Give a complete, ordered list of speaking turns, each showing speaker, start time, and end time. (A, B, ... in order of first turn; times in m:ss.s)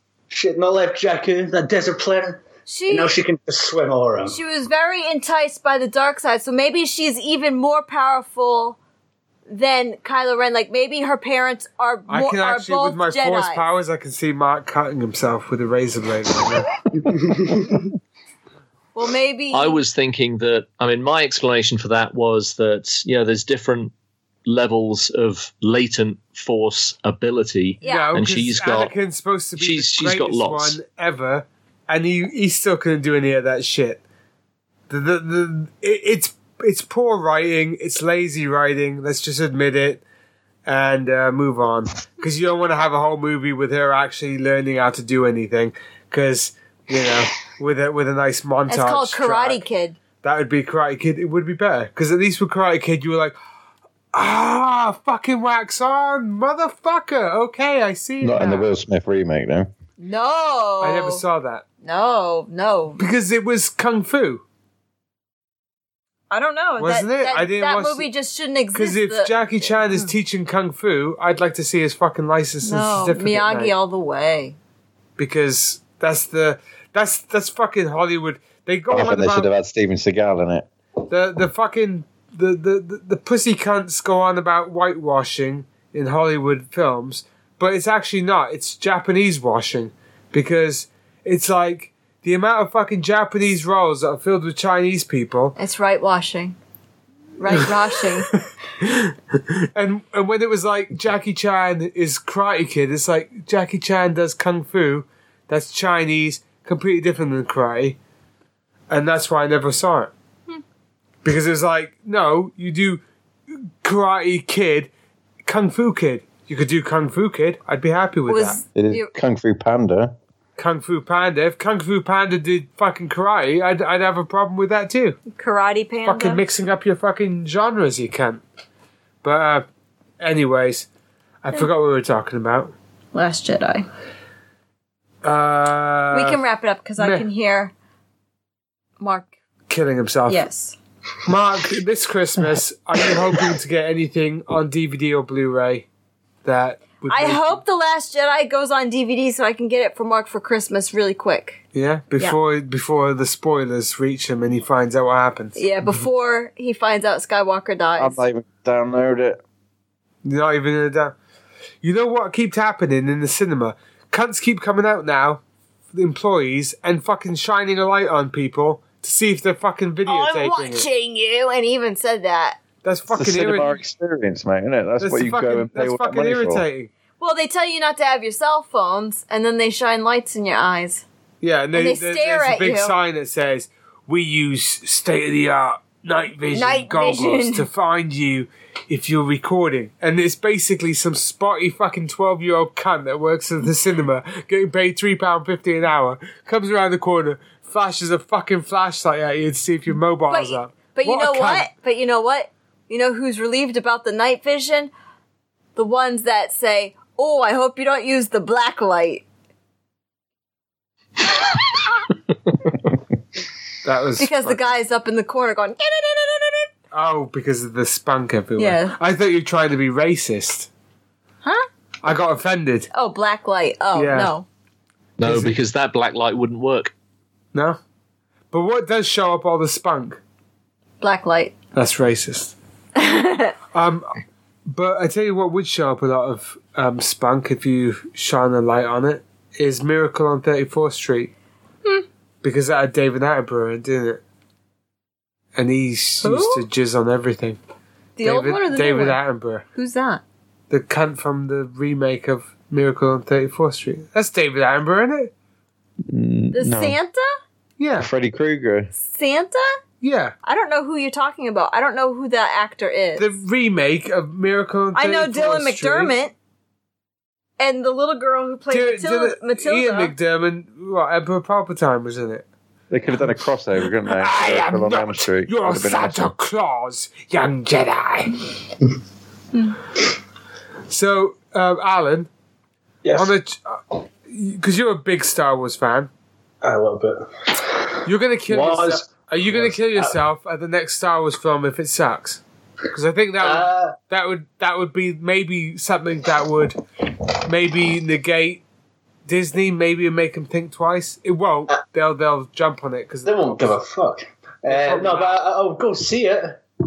0:00.3-0:04.4 A
0:02.7-0:03.1 B
0:04.3-0:08.8 B
0:09.5-0:13.6 B
0:12.1-0:16.8 C
0:17.0-0:17.8 A
0:19.0-0:19.8 B
0:19.5-0:23.9 D
0:24.4-0:28.9 D
0:27.8-0:28.2 B
0:27.8-0:34.0 C
0:29.6-0:30.8 D
0:34.9-0:40.0 C
0:40.7-0:49.6 C
0:48.7-0:50.0 B
0:50.2-0:53.4 C
0:54.1-0:58.6 C
0:58.2-0:59.7 E
1:00.0-1:01.2 B
1:00.8-1:01.6 C
1:01.8-1:03.0 B
1:03.0-1:04.4 C
1:06.3-1:10.1 B
1:06.8-1:08.1 C
1:08.7-1:13.7 C
1:12.6-1:14.6 B
1:15.2-1:19.5 C
1:18.9-1:20.7 E
1:21.1-1:35.6 C
1:35.6-1:36.6 B
1:37.4-1:38.3 B
1:38.8-1:48.0 C
1:48.9-1:50.1 C
1:51.2-1:54.9 C
1:55.4-1:58.6 C
1:58.3-1:59.1 B
1:58.8-2:00.1 E
2:00.6-2:05.2 C
2:05.3-2:06.4 B
2:06.0-2:08.4 C
2:09.2-2:09.6 C
2:10.2-2:10.9 C
2:11.4-2:12.7 C
2:13.1-2:13.9 B
2:15.2-2:16.4 C
2:16.1-2:17.7 B
2:17.0-2:17.3 C
2:19.0-2:19.3 B
2:19.7-2:20.4 C
2:20.3-2:20.8 B
2:21.2-2:25.9 C
2:26.4-2:27.6 C
2:27.1-2:31.6 B
2:31.7-2:35.6 C
2:35.6-2:38.2 B
2:38.0-2:39.4 E
2:40.2-2:41.2 C
2:41.8-2:45.4 C
2:45.9-2:50.8 C
2:50.1-2:52.6 B
2:52.8-2:53.8 C
2:53.1-2:56.7 E
2:55.0-2:56.9 C
2:57.2-3:01.0 B
3:01.4-3:21.7 C
3:01.7-3:02.9 B
3:06.5-3:07.7 B
3:20.3-3:24.9 B
3:25.8-3:29.2 B
3:33.8-3:34.7 C
3:34.2-3:36.7 B
3:36.9-3:40.7 C
3:38.6-3:39.0 B
3:42.0-3:42.9 C
3:42.9-3:44.5 B
3:43.9-3:44.3 C
3:45.2-3:46.9 D
3:45.2-3:45.6 C
3:47.5-3:47.8 C
3:48.5-3:50.2 C
3:51.0-3:51.6 B
3:51.8-3:52.6 C
3:53.0-3:53.6 B
3:53.7-3:54.1 C
3:54.7-4:01.3 C
4:02.4-4:04.2 C
4:05.6-4:07.6 C
4:06.2-4:06.6 B
4:08.2-4:09.2 B
4:08.2-4:09.6 C
4:09.7-4:10.2 B
4:10.7-4:15.3 C
4:16.1-4:17.0 E
4:16.5-4:17.3 B
4:17.8-4:18.1 C
4:18.0-4:18.9 E
4:19.0-4:19.7 B
4:20.0-4:20.4 C
4:20.4-4:23.3 B
4:23.2-4:26.1 C
4:25.0-4:26.3 B
4:27.6-4:30.1 B
4:28.7-4:32.4 C
4:32.9-4:36.3 E
4:34.0-4:38.5 C
4:40.9-4:42.3 C
4:43.0-4:43.3 A
4:43.2-4:46.1 C
4:46.6-4:50.1 A
4:48.0-4:56.8 C
4:53.4-4:54.0 A
4:57.4-4:58.6 C
4:59.3-5:03.8 C
5:03.3-5:06.6 A
5:04.7-5:05.4 C